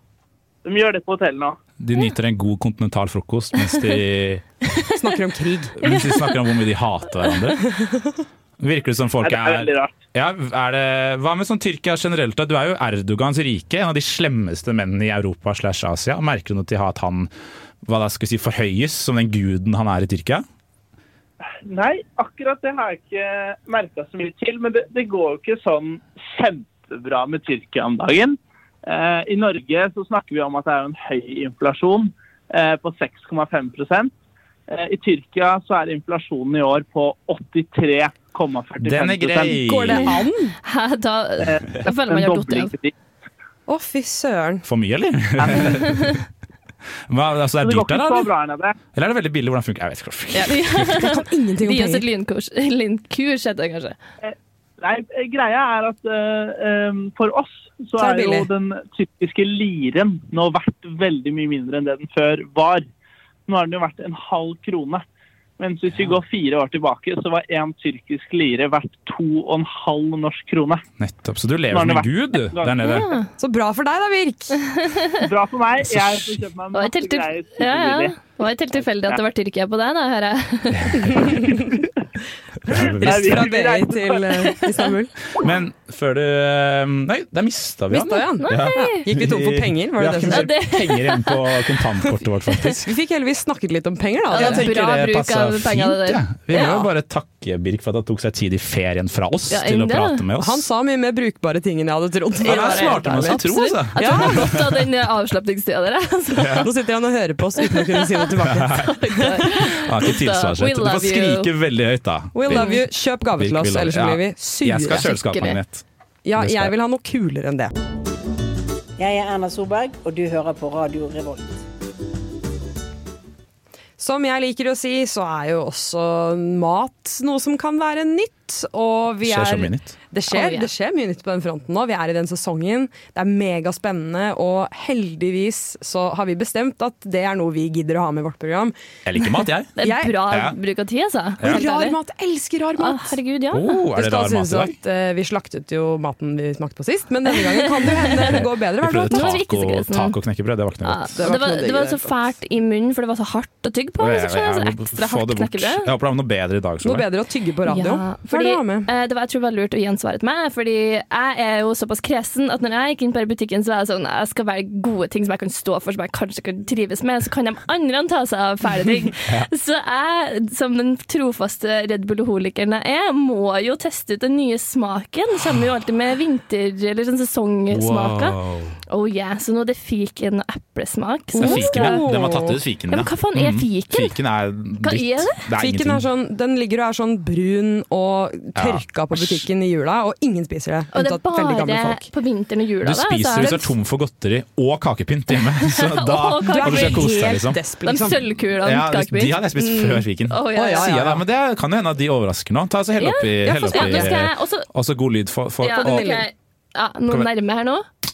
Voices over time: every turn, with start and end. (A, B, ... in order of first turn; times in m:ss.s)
0:00.6-0:01.6 A
0:01.8-0:04.4 B
0:04.9-0:05.8 C
0:05.8-0:07.7 B
0:05.8-0:06.3 D
0:08.6-0:17.3 B
0:09.2-0:10.0 A
0:17.8-0:20.4 B
0:21.5-0:34.1 A
0:34.7-0:39.6 A
0:38.8-0:40.2 B
0:39.6-0:40.5 C
0:40.6-0:42.7 D
0:41.4-0:42.9 A
0:43.7-0:44.6 C
0:44.6-0:46.2 B
0:45.4-0:45.7 A
0:45.8-0:46.1 D
0:47.1-0:48.3 B
0:47.6-0:48.8 A
0:48.9-0:50.9 B
0:50.3-0:52.0 C
0:50.5-0:54.0 D
0:54.2-1:02.8 A
0:58.0-0:58.5 C
1:03.5-1:05.0 A
1:05.6-1:10.8 A
1:05.9-1:06.2 B
1:11.0-1:13.1 B
1:11.7-1:12.7 A
1:12.8-1:13.3 D
1:13.4-1:14.6 C
1:14.8-1:15.2 D
1:15.2-1:18.2 A
1:15.8-1:16.4 B
1:16.7-1:21.4 D
1:20.7-1:21.2 B
1:21.2-1:21.6 C
1:22.6-1:23.5 B
1:22.7-1:25.1 C
1:23.0-1:24.7 A
1:25.3-1:32.9 B
1:27.9-1:30.5 C
1:28.4-1:29.0 D
1:30.3-1:31.6 D
1:32.8-1:34.7 C
1:34.3-1:36.9 D
1:34.3-1:40.6 B
1:39.5-1:40.2 D
1:40.4-1:44.6 C
1:42.4-1:44.8 B
1:42.4-1:46.7 D
1:46.4-1:46.7 B
1:46.5-1:49.5 C
1:47.6-1:48.1 D
1:48.4-1:52.8 B
1:48.7-1:51.5 D
1:52.3-1:55.1 C
1:52.5-1:52.8 D
1:53.4-1:55.8 B
1:55.0-1:55.6 D
1:56.2-1:57.7 C
1:56.4-1:56.7 B
1:59.0-2:01.6 E
2:04.0-2:18.7 C
2:09.2-2:10.0 B
2:10.3-2:10.7 D
2:19.0-2:20.6 B
2:19.8-2:22.0 D
2:19.8-2:20.2 C
2:21.4-2:23.2 C
2:22.8-2:23.8 D
2:23.5-2:24.8 B
2:23.9-2:29.3 C
2:27.8-2:28.4 D
2:28.1-2:31.2 B
2:29.1-2:30.2 D
2:30.8-2:35.9 D
2:31.2-2:32.2 C
2:34.0-2:37.1 B
2:36.8-2:38.9 C
2:37.7-2:58.4 D
2:49.2-2:49.5 B
2:57.7-2:58.8 B
2:58.9-3:02.1 D
3:01.4-3:02.6 C
3:01.4-3:06.0 B
3:02.9-3:04.2 D
3:04.8-3:05.4 D
3:05.6-3:12.0 C
3:08.6-3:09.5 B
3:10.9-3:13.7 D
3:12.8-3:17.6 B
3:15.6-3:17.2 D
3:16.4-3:18.2 C
3:17.8-3:20.9 D
3:18.6-3:26.2 B
3:20.5-3:21.2 C
3:23.0-3:24.7 D
3:23.6-3:24.1 C
3:25.6-3:27.8 D
3:25.7-3:26.2 C